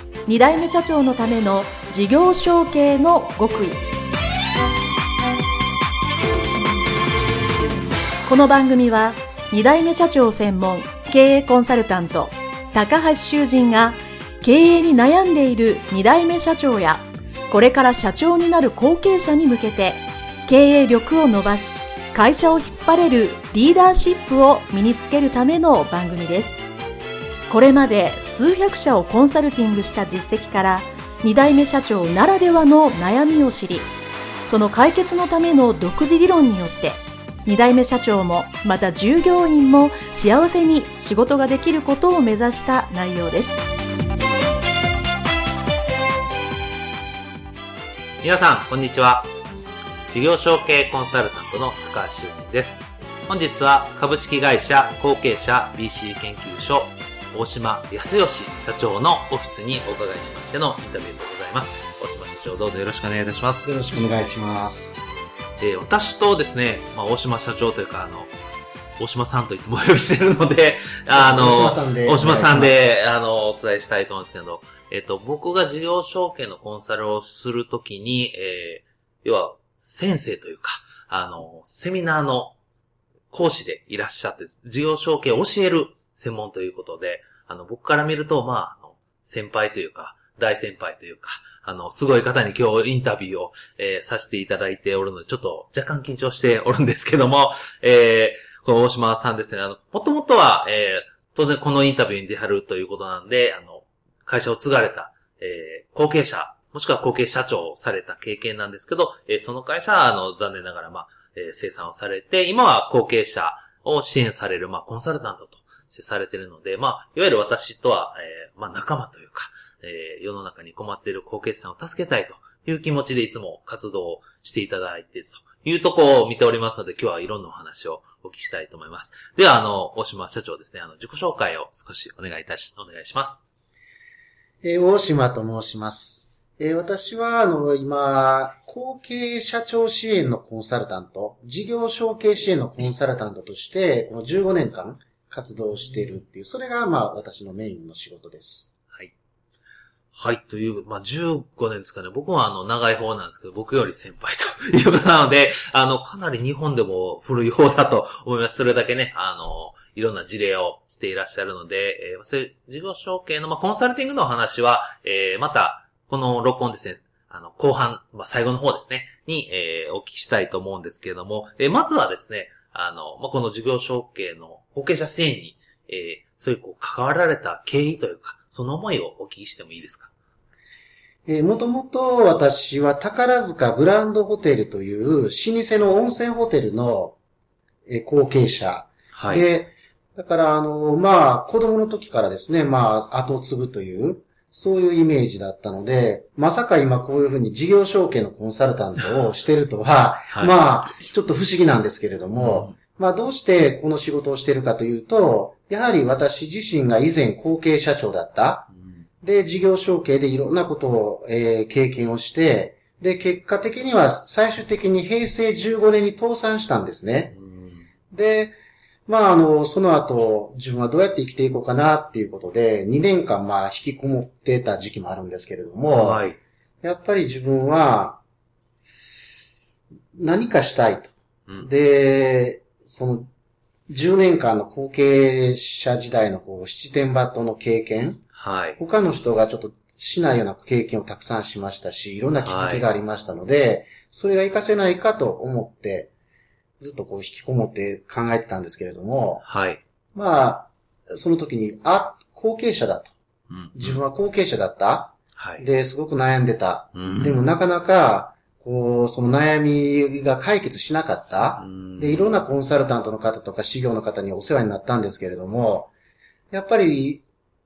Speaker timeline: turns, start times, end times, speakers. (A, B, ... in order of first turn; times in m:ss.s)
0:00.3-0:03.8 A
0:08.2-0:26.6 A
0:27.5-0:33.9 A
0:34.5-0:43.6 A
0:48.2-0:49.3 B
0:50.1-1:03.7 B
1:03.6-1:05.1 C
1:05.6-1:08.3 B
1:09.0-1:22.6 B
1:11.1-1:12.9 C
1:23.3-2:13.4 B
2:14.6-2:28.7 C
2:30.1-3:00.1 B
3:01.3-3:07.2 C
3:07.9-3:28.7 C
3:09.1-3:09.5 B
3:22.4-3:22.8 B
3:28.7-3:29.0 B
3:29.2-3:37.4 C
3:37.3-3:37.9 B
3:38.1-3:38.6 C
3:39.1-3:46.3 C
3:45.9-3:46.4 B
3:46.8-3:48.2 C
3:50.2-3:53.3 C
3:53.9-3:58.2 C
3:58.3-3:58.8 B
3:58.8-4:06.1 C
4:02.4-4:02.9 B
4:06.8-4:09.4 C
4:09.4-4:09.8 B
4:10.2-4:13.2 C
4:13.5-4:14.0 B
4:13.7-4:25.9 C
4:15.4-4:15.7 B
4:16.9-4:17.4 B
4:21.6-4:22.3 B
4:26.5-4:27.2 C